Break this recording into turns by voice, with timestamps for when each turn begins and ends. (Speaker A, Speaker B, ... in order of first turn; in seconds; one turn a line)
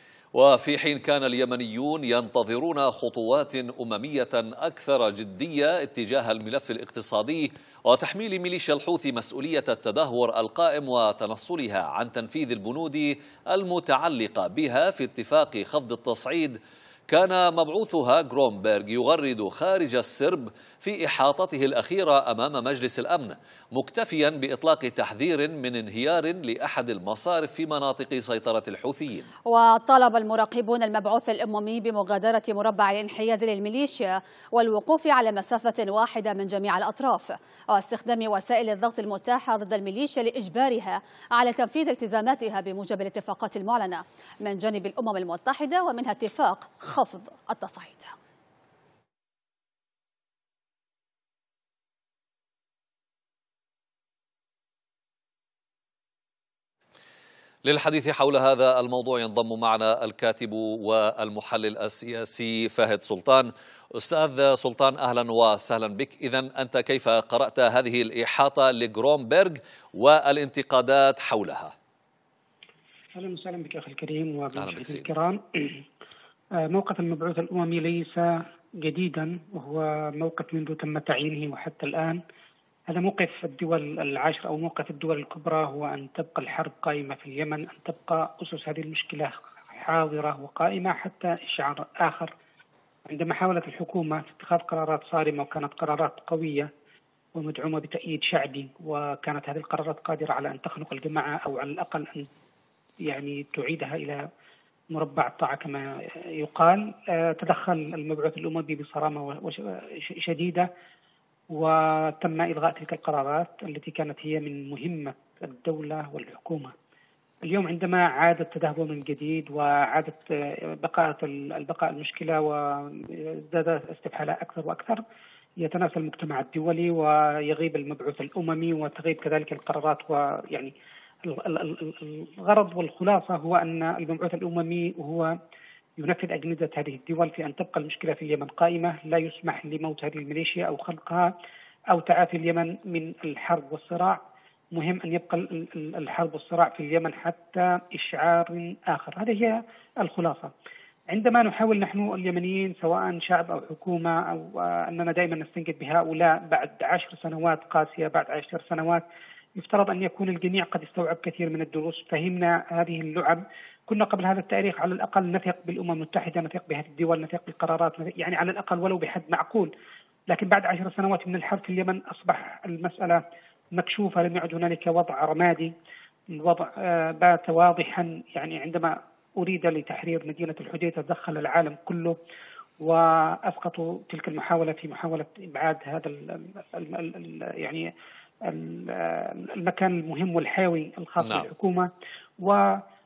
Speaker A: 0.3-16.6
Speaker A: 17.1-29.3
Speaker B: 29.5-48.1
Speaker A: 57.6-71.7
Speaker C: 73.1-75.8
Speaker A: 74.5-75.1
Speaker C: 76.6-82.2
Speaker C: 82.9-92.3
Speaker C: 93.1-96.7
Speaker C: 97.3-102.3
Speaker C: 103.0-104.2
Speaker C: 104.9-110.7
Speaker C: 111.5-116.7
Speaker C: 117.4-125.0
Speaker C: 125.6-130.7
Speaker C: 131.2-135.3
Speaker C: 136.0-141.3
Speaker C: 141.9-144.2
Speaker C: 144.7-150.5
Speaker C: 151.1-159.0
Speaker C: 159.6-169.7
Speaker C: 170.3-173.2
Speaker C: 173.8-175.7
Speaker C: 176.3-182.2
Speaker C: 182.8-187.9
Speaker C: 188.4-191.9
Speaker A: 191.2-191.5
Speaker C: 192.4-192.8